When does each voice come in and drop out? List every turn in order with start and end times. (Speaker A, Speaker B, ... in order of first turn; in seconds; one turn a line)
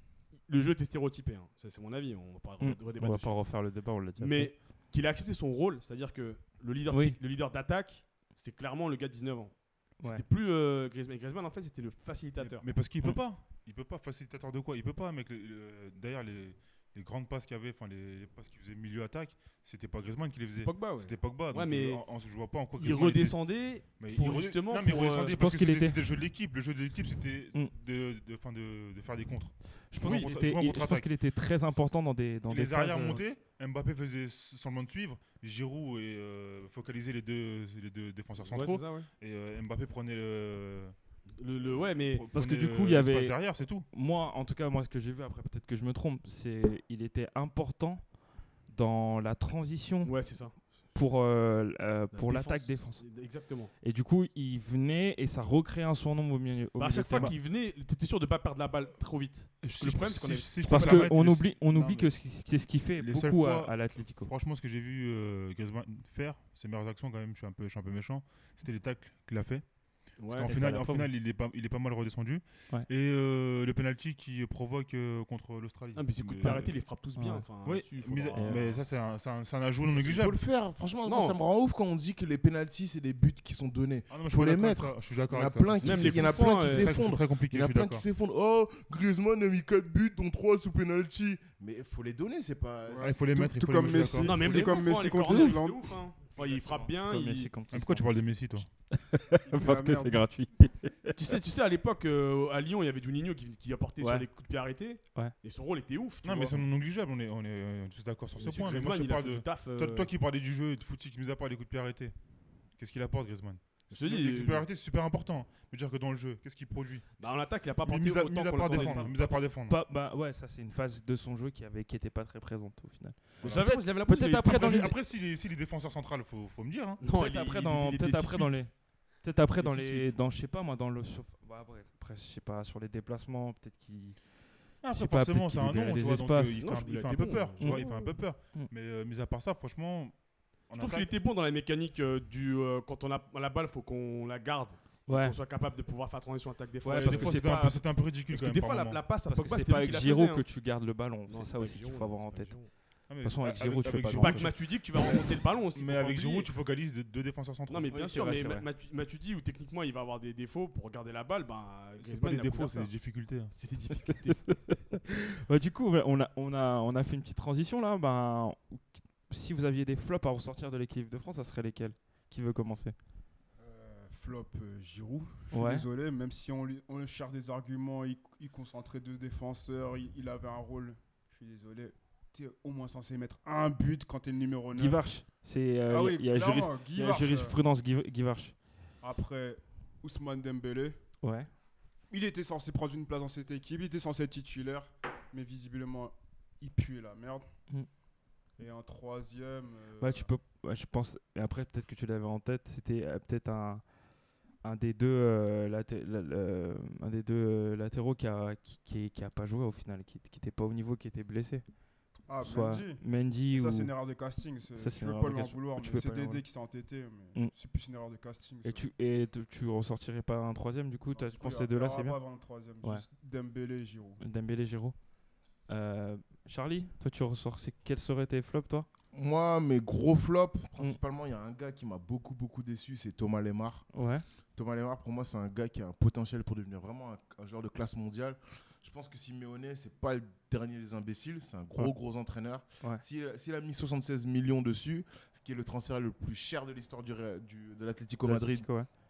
Speaker A: 0.3-12.7
Speaker B: 2.6-4.6
Speaker B: 6.9-7.2
Speaker B: 10.0-10.2
Speaker C: 12.4-31.9
Speaker B: 13.0-13.3
Speaker A: 20.6-22.1
Speaker A: 22.8-25.4
Speaker B: 25.1-26.0
Speaker B: 29.9-33.2
Speaker A: 30.0-30.4
Speaker C: 32.5-41.0
Speaker A: 38.5-39.1
Speaker A: 41.3-42.3
Speaker C: 41.7-43.9
Speaker B: 42.3-57.4
Speaker A: 50.0-50.9
Speaker A: 52.1-53.7
Speaker A: 56.8-61.4
Speaker C: 59.6-77.0
Speaker B: 60.7-64.3
Speaker A: 70.2-70.5
Speaker B: 70.5-71.1
Speaker A: 76.0-78.8
Speaker B: 76.4-77.5
Speaker C: 77.6-80.4
Speaker B: 78.3-78.8
Speaker D: 79.9-93.2
Speaker A: 81.0-81.4
Speaker C: 84.1-88.0
Speaker A: 85.8-87.0
Speaker E: 92.9-96.0
Speaker C: 93.0-95.5
Speaker A: 94.2-97.5
Speaker B: 96.3-101.2
Speaker C: 97.7-98.7
Speaker E: 99.5-100.4
Speaker A: 101.2-106.6
Speaker B: 104.0-104.3
Speaker C: 106.2-112.2
Speaker A: 108.4-110.1
Speaker C: 112.8-117.3
Speaker A: 113.9-114.7
Speaker A: 117.2-119.4
Speaker C: 117.8-119.8
Speaker B: 118.7-125.0
Speaker A: 123.4-124.9
Speaker C: 123.4-123.8
Speaker C: 124.4-127.0
Speaker A: 127.0-128.8
Speaker B: 127.1-136.7
Speaker A: 129.6-130.2
Speaker C: 134.8-141.1
Speaker A: 136.5-138.1
Speaker B: 137.6-138.7
Speaker A: 140.7-150.5
Speaker B: 145.1-145.4
Speaker B: 146.8-147.9
Speaker C: 146.9-149.1
Speaker B: 149.2-154.7
Speaker A: 151.3-152.7
Speaker C: 153.1-157.9
Speaker A: 154.1-156.5
Speaker A: 157.7-164.5
Speaker B: 157.9-158.7
Speaker C: 162.0-163.6
Speaker B: 164.3-172.9
Speaker E: 173.6-185.1
Speaker B: 175.5-175.9
Speaker B: 184.7-188.6
Speaker E: 185.9-187.6
Speaker E: 189.0-191.0
Speaker B: 191.2-191.5
Speaker E: 192.1-197.5
Speaker E: 198.6-200.3
Speaker B: 200.0-203.9
Speaker B: 204.6-211.7
Speaker E: 212.3-218.9
Speaker B: 212.4-213.9
Speaker B: 214.8-216.4
Speaker B: 218.6-222.2
Speaker E: 221.1-224.2
Speaker B: 224.2-225.0
Speaker B: 225.7-228.9
Speaker D: 229.1-233.9
Speaker B: 233.9-234.2
Speaker D: 234.6-248.7
Speaker B: 248.2-248.9